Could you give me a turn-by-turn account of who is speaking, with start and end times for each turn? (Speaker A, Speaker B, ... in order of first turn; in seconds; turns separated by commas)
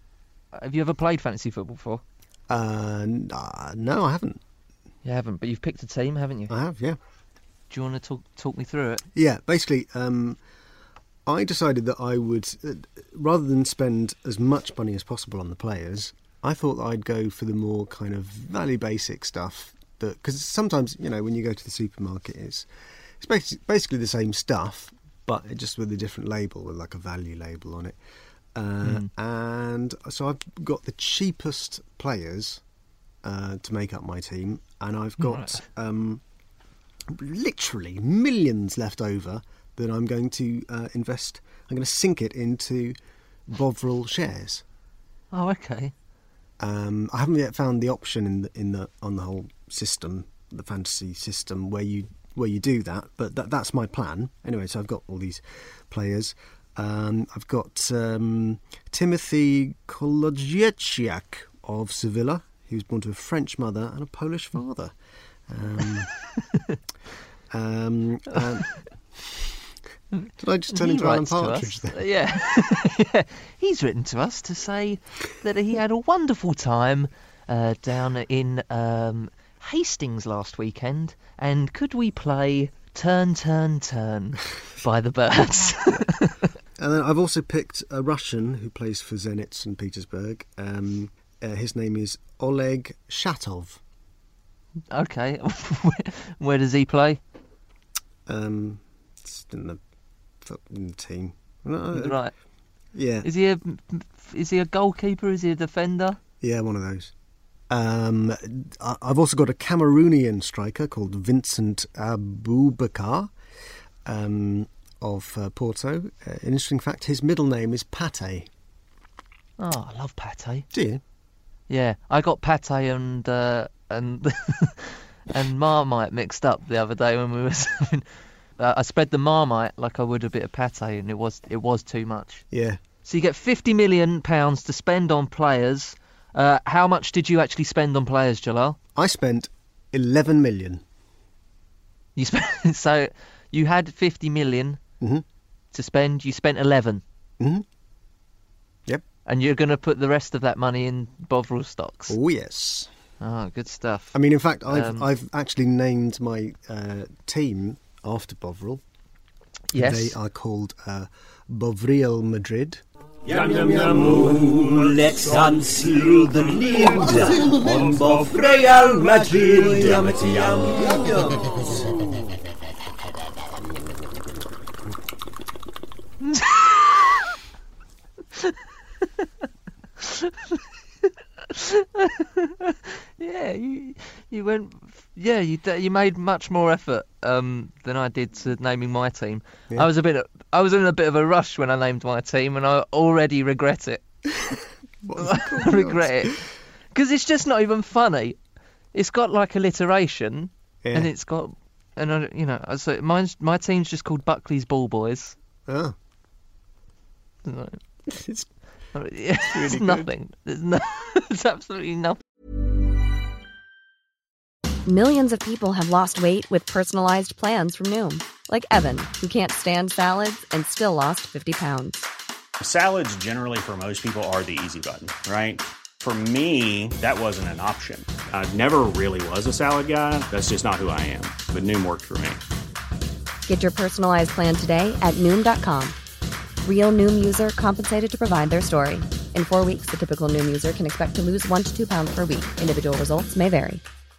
Speaker A: 0.5-2.0, Speaker B: 2.5-4.4, Speaker A: 5.0-6.5, Speaker B: 6.5-7.0, Speaker A: 7.7-9.0, Speaker B: 9.1-10.4, Speaker B: 11.2-22.7, Speaker B: 23.2-28.0, Speaker B: 28.5-32.6, Speaker A: 28.8-29.1, Speaker B: 33.2-36.2, Speaker A: 35.2-35.6, Speaker B: 37.1-43.0, Speaker B: 43.5-44.6, Speaker A: 45.3-45.9, Speaker B: 46.6-64.9, Speaker B: 65.5-66.1, Speaker B: 67.5-69.4, Speaker A: 70.2-86.4, Speaker B: 70.4-72.0, Speaker B: 86.8-93.8, Speaker A: 94.9-97.2, Speaker B: 98.2-99.8, Speaker B: 100.4-102.2, Speaker A: 101.9-102.3, Speaker B: 102.9-103.3, Speaker A: 103.2-106.2, Speaker B: 106.4-107.1, Speaker B: 107.7-113.3, Speaker B: 114.0-118.5, Speaker A: 119.6-120.7, Speaker B: 120.7-121.0, Speaker A: 121.7-128.0, Speaker A: 128.6-132.4, Speaker B: 132.5-132.8, Speaker A: 133.0-138.8, Speaker B: 138.9-140.8, Speaker A: 142.2-144.8, Speaker A: 145.7-147.0, Speaker B: 147.4-147.6, Speaker A: 149.2-152.2, Speaker B: 152.1-152.9, Speaker A: 153.2-154.2, Speaker B: 154.1-158.8, Speaker A: 154.7-155.1, Speaker A: 159.7-160.2, Speaker B: 159.7-162.8, Speaker C: 163.2-171.8, Speaker A: 176.2-177.2, Speaker A: 180.0-194.0, Speaker B: 195.0-196.4, Speaker A: 195.2-198.4, Speaker A: 198.9-205.3, Speaker B: 200.8-201.1, Speaker B: 205.7-205.9, Speaker A: 207.4-207.8, Speaker B: 208.1-208.5, Speaker A: 208.9-212.2, Speaker B: 209.5-210.1, Speaker D: 214.8-222.1, Speaker E: 222.6-232.4, Speaker D: 233.5-235.9, Speaker D: 236.6-243.8